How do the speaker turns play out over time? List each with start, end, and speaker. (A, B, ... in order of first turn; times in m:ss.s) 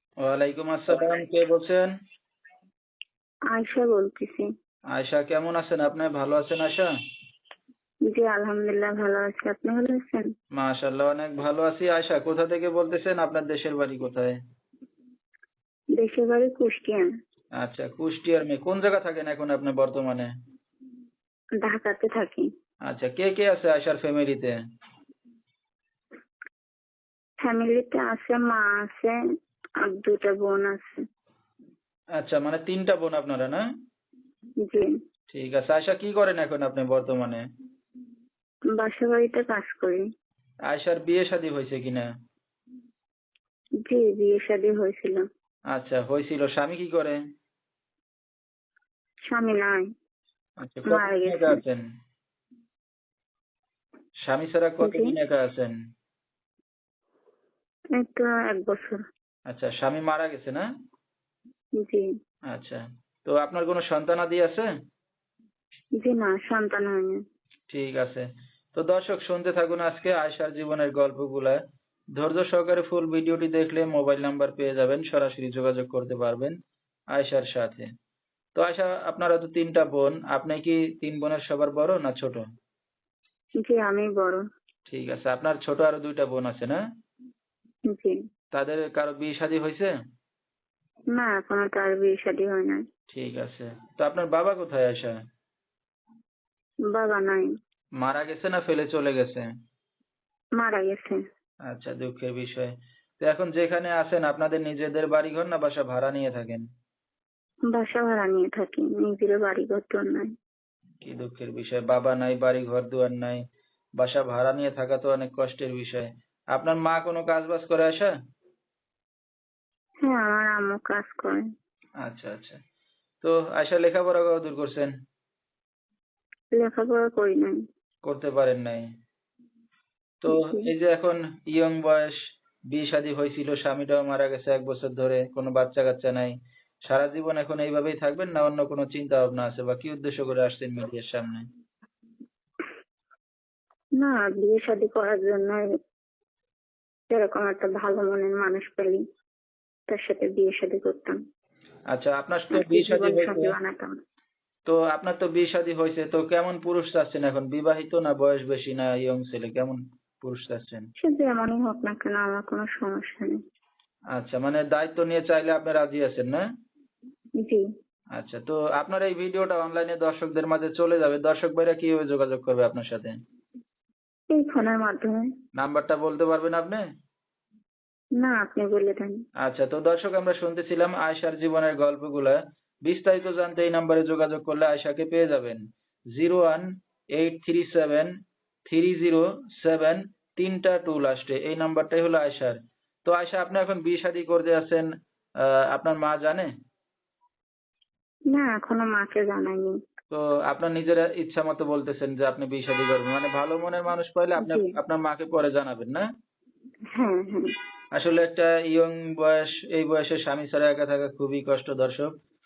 0:00.2-0:01.9 A
0:03.5-0:04.5 B
0:04.9-0:06.9 A
0:08.1-0:10.2 B
0:10.6-0:14.4 A
0:16.0-0:17.0 B
0:17.6-0:20.3 A
0:21.6-0:22.4 B
0:22.9-0:24.5 A
0:27.4-0:29.2 B
0:29.8-0:30.9 B
0:32.2-0:33.6 A
0:34.6-0:34.9 B
0:35.3-0:37.4 A
0:38.8-0:40.0 B
0:40.7-0:42.0 A
0:43.9-0:45.2 B
0:45.7-0:47.2 A
0:49.3-0:49.9 B
0:50.6-0:51.8 A
0:50.8-0:51.6 B
0:54.2-0:55.7 A
0:54.8-0:55.1 B
0:58.0-0:59.0 B
0:59.5-1:00.7 A
1:01.8-1:02.0 B
1:02.5-1:04.7 A
1:06.0-1:07.2 B
1:07.7-1:11.6 A
1:12.2-1:16.6 A
1:17.1-1:17.9 A
1:18.6-1:22.4 A
1:23.6-1:24.4 B
1:24.9-1:26.8 A
1:27.9-1:28.1 B
1:28.5-1:29.9 A
1:31.1-1:32.8 B
1:33.1-1:35.1 A
1:36.9-1:37.5 B
1:38.0-1:39.4 A
1:40.6-1:41.2 B
1:41.7-1:46.6 A
1:47.7-1:50.3 B
1:51.0-1:53.4 A
1:54.0-1:58.1 A
2:00.0-2:01.4 B
2:02.0-2:02.6 A
2:03.2-2:04.9 A
2:06.6-2:07.6 B
2:08.0-2:08.8 A
2:10.2-2:12.2 A
2:10.3-2:10.7 B
2:12.7-2:16.3 A
2:16.9-2:21.5 A
2:24.0-2:25.7 B
2:27.1-2:29.0 B
2:29.9-2:31.2 B
2:31.9-2:33.5 A
2:32.5-2:34.0 B
2:34.7-2:40.9 A
2:41.0-2:43.4 B
2:44.1-2:46.4 A
2:48.2-2:53.1 A
2:54.3-2:55.2 B
2:55.6-2:56.8 A
2:58.2-2:59.2 B
2:59.4-3:05.6 A
3:06.1-3:08.1 A
3:08.7-3:14.9 A
3:15.4-3:16.5 A
3:18.3-3:19.7 B
3:20.1-3:26.0 A
3:24.4-3:24.7 B
3:27.0-3:27.5 B
3:28.0-3:32.1 A